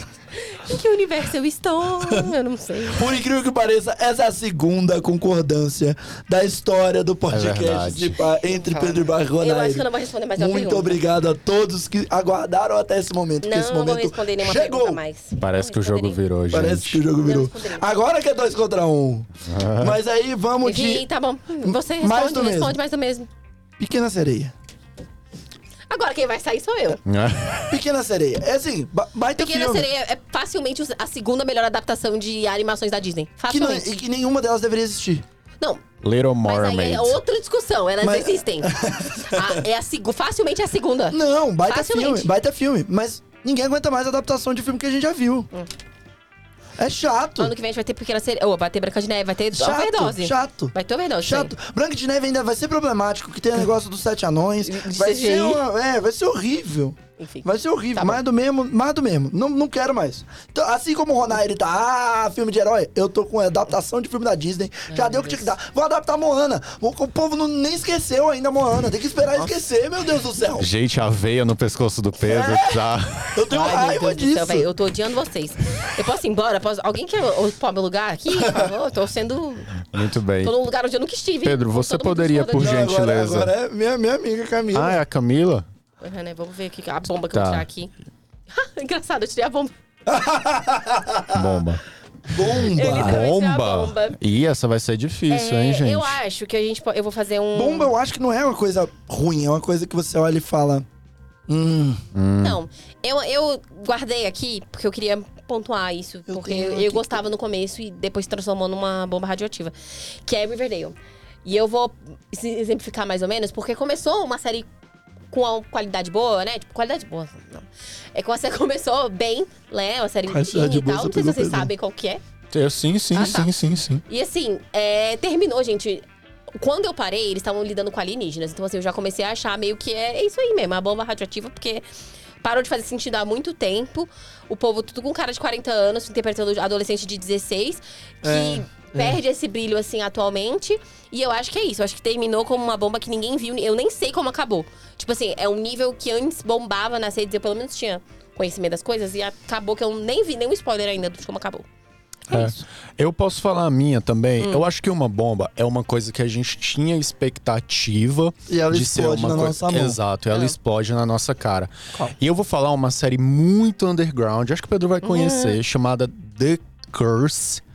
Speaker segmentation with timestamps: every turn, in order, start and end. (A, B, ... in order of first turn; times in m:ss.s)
0:00.3-0:03.1 A
0:02.9-0:15.0 B
0:07.3-0:08.1 C
0:08.5-0:11.0 A
0:13.4-0:16.2 A
0:15.4-0:17.0 C
0:16.5-0:21.0 B
0:17.2-0:17.8 A
0:19.5-0:20.0 C
0:20.6-0:23.3 A
0:21.6-0:22.8 B
0:23.8-0:24.5 B
0:25.9-0:27.0 A
0:27.0-0:27.8 C
0:27.7-0:29.9 B
0:29.4-0:33.9 A
0:33.5-0:35.2 B
0:36.0-0:37.2 C
0:36.4-0:42.3 A
0:38.0-0:39.6 B
0:41.1-0:45.5 B
0:46.8-0:47.5 B
0:47.4-0:51.5 A
0:49.5-1:10.7 B
0:54.6-0:55.6 A
0:57.2-0:58.2 A
1:04.9-1:05.5 A
1:10.6-1:13.4 C
1:12.2-1:14.7 B
1:13.5-1:19.9 A
1:18.4-1:18.7 B
1:19.9-1:20.5 C
1:20.4-1:22.8 A
1:21.4-1:23.5 C
1:22.5-1:25.0 B
1:24.7-1:25.6 C
1:26.0-1:27.9 A
1:27.3-1:27.6 C
1:28.5-1:29.7 A
1:30.0-1:31.6 B
1:31.3-1:31.8 C
1:32.3-1:33.2 B
1:32.7-1:34.2 A
1:32.8-1:36.2 C
1:35.3-1:37.9 A
1:37.5-1:40.8 B
1:41.5-1:42.0 B
1:42.1-1:42.6 C
1:42.4-1:54.7 A
1:46.3-1:47.2 B
1:55.3-2:02.2 A
2:00.3-2:01.7 B
2:02.5-2:04.0 C
2:03.1-2:03.5 A
2:04.0-2:11.8 A
2:12.4-2:31.6 A
2:18.2-2:19.1 B
2:32.3-2:32.5 A
2:32.3-2:47.6 C
2:38.5-2:40.0 B
2:45.0-2:45.6 A